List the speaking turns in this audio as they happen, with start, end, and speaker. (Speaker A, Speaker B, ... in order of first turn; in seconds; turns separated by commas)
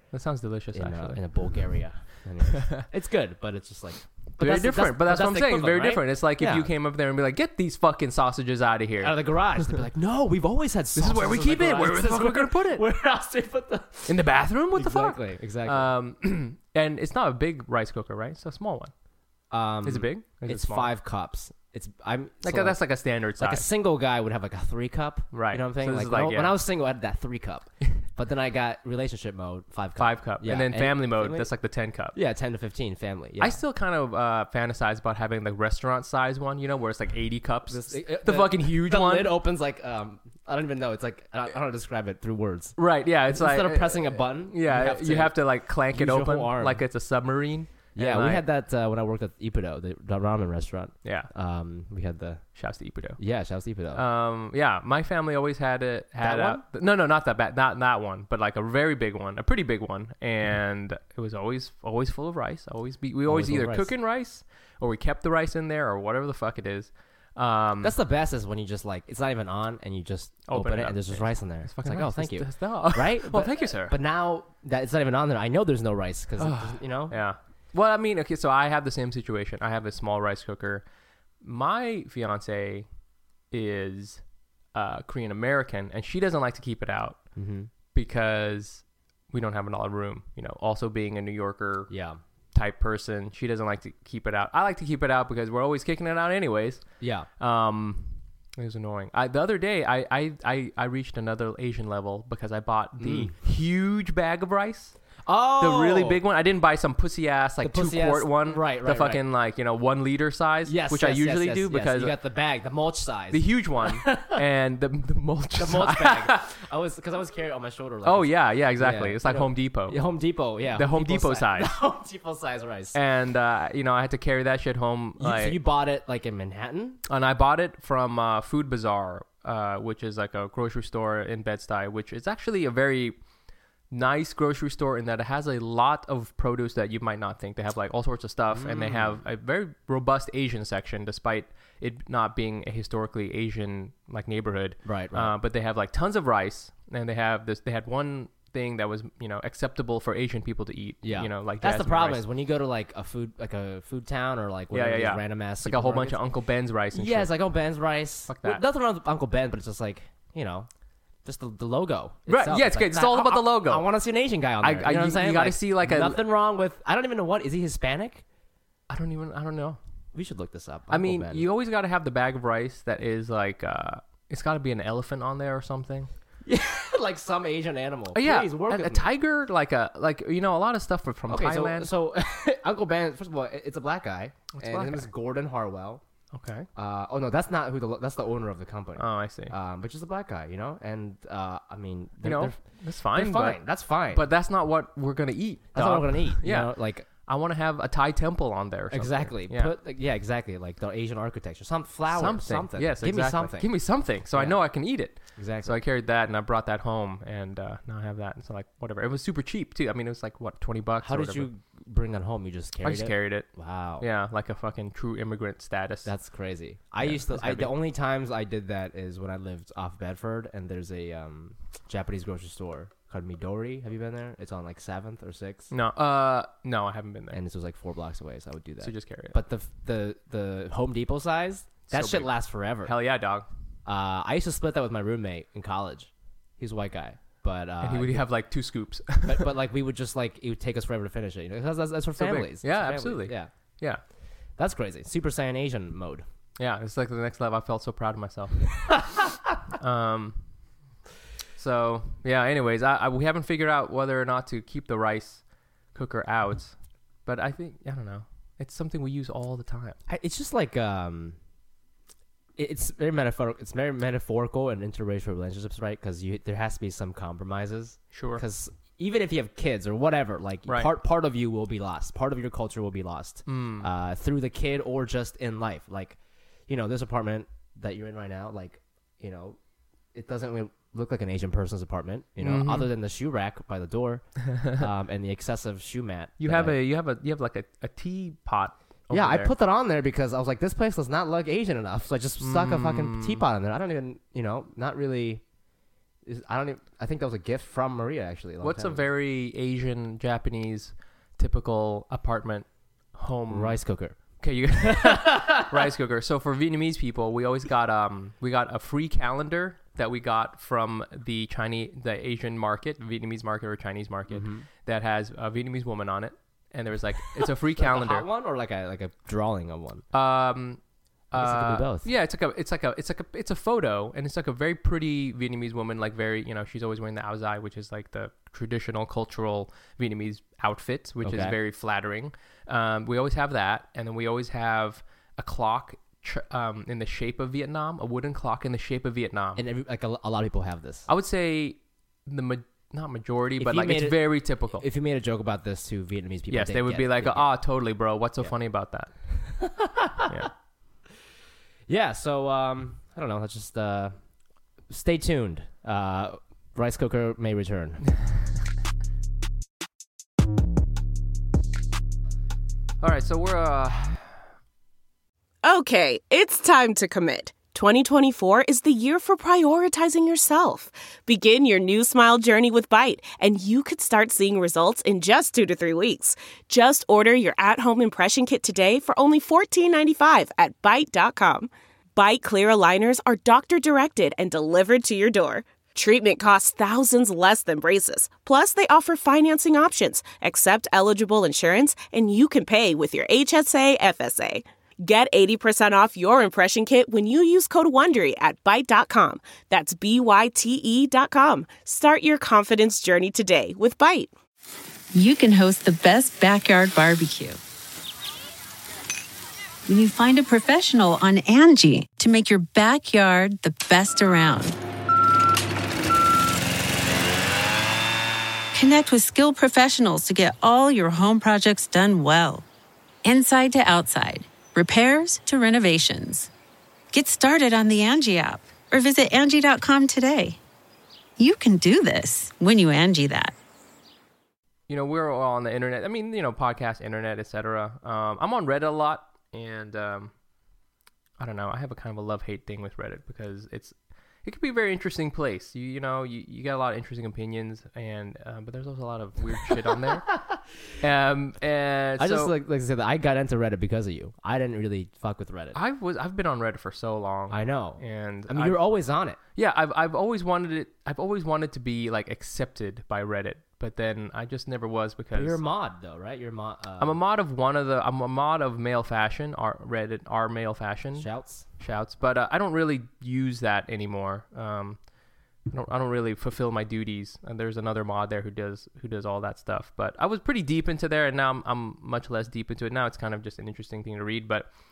Speaker A: 0.1-1.2, Speaker B: 0.7-6.7, Speaker A: 4.4-9.1, Speaker B: 9.0-15.9, Speaker A: 10.9-12.8, Speaker A: 14.1-18.9, Speaker B: 19.5-22.8, Speaker A: 19.8-20.9, Speaker A: 22.4-23.6, Speaker B: 23.4-31.5, Speaker A: 25.3-26.5, Speaker A: 30.0-32.1, Speaker B: 32.1-33.6, Speaker A: 33.4-39.3, Speaker B: 37.7-45.4, Speaker A: 42.8-48.4, Speaker B: 45.9-46.8, Speaker B: 47.9-52.4, Speaker A: 51.0-51.3, Speaker A: 52.5-53.2, Speaker B: 53.2-54.0, Speaker A: 53.9-67.9, Speaker B: 56.2-56.6, Speaker B: 63.3-63.9, Speaker B: 67.8-77.2, Speaker A: 70.5-73.9, Speaker A: 76.4-80.8, Speaker A: 81.4-82.8, Speaker A: 83.5-84.2, Speaker A: 84.7-87.2, Speaker B: 87.3-87.7, Speaker A: 87.9-91.9, Speaker B: 91.9-92.2, Speaker A: 92.5-96.8, Speaker B: 97.0-97.3, Speaker A: 97.4-104.9, Speaker B: 103.0-103.3, Speaker B: 105.2-106.2, Speaker A: 105.6-112.1, Speaker B: 107.6-109.2, Speaker B: 110.7-114.4, Speaker A: 113.3-116.4, Speaker B: 115.6-123.0, Speaker A: 118.0-120.0, Speaker A: 120.7-121.7, Speaker A: 122.9-125.6, Speaker B: 125.2-127.0, Speaker A: 127.1-133.2, Speaker A: 133.9-152.2, Speaker B: 138.5-139.2, Speaker B: 144.8-145.3, Speaker B: 151.0-156.2, Speaker A: 154.7-157.3, Speaker B: 156.9-160.7, Speaker A: 158.3-158.6, Speaker B: 161.2-168.2, Speaker A: 162.3-163.8, Speaker A: 164.6-166.2, Speaker A: 168.9-169.8, Speaker B: 170.1-171.4, Speaker A: 170.9-176.1, Speaker B: 176.4-179.1, Speaker A: 178.1-181.9, Speaker B: 181.3-186.0, Speaker A: 184.5-185.1, Speaker A: 186.3-186.7, Speaker B: 186.7-192.6, Speaker A: 189.0-189.5, Speaker A: 192.2-199.7, Speaker B: 193.1-194.2, Speaker B: 195.7-197.1, Speaker B: 198.9-203.7, Speaker A: 202.1-211.5, Speaker B: 204.3-204.6, Speaker B: 205.3-205.8, Speaker B: 211.0-214.1, Speaker A: 212.8-216.1, Speaker B: 216.0-225.7, Speaker A: 217.0-217.7, Speaker A: 225.7-227.4, Speaker B: 227.3-232.9, Speaker A: 228.8-229.4, Speaker A: 231.9-232.3, Speaker A: 232.8-233.5, Speaker B: 233.8-238.2, Speaker A: 237.8-239.5, Speaker B: 239.2-243.5, Speaker A: 242.2-244.0, Speaker B: 244.6-246.2, Speaker A: 246.6-249.0, Speaker A: 249.7-250.4, Speaker A: 251.6-255.4, Speaker A: 255.9-256.7, Speaker A: 257.2-260.0, Speaker B: 260.1-261.4, Speaker B: 262.6-279.6, Speaker A: 268.1-268.4, Speaker A: 273.5-273.9, Speaker B: 280.1-286.8, Speaker A: 282.4-282.9, Speaker A: 284.5-284.9, Speaker A: 286.4-289.5, Speaker B: 289.1-295.4, Speaker A: 292.4-293.4, Speaker B: 296.2-299.0, Speaker A: 298.6-303.8, Speaker B: 303.5-304.2, Speaker A: 304.4-318.2, Speaker B: 304.9-305.7, Speaker B: 314.3-314.6, Speaker B: 317.4-320.0, Speaker A: 320.1-339.6, Speaker B: 321.3-322.1, Speaker B: 331.2-331.6, Speaker B: 339.6-341.1, Speaker A: 341.1-344.8, Speaker B: 343.6-347.5, Speaker A: 346.5-349.1, Speaker B: 349.5-350.5, Speaker B: 351.9-354.1, Speaker B: 354.9-358.0, Speaker A: 363.0-364.3, Speaker C: 365.6-404.3, Speaker D: 405.1-407.6, Speaker D: 409.9-414.8, Speaker D: 418.7-422.6, Speaker D: 423.2-426.5, Speaker D: 427.1-430.6, Speaker D: 431.4-433.5, Speaker A: 434.9-440.3, Speaker A: 441.4-450.2, Speaker B: 450.1-450.6, Speaker A: 451.0-452.5, Speaker B: 452.2-455.8, Speaker A: 455.7-458.8, Speaker B: 457.5-459.4, Speaker A: 459.6-465.6, Speaker B: 465.3-467.2, Speaker A: 467.0-471.3, Speaker B: 471.1-471.7, Speaker A: 471.8-475.0, Speaker A: 475.7-484.7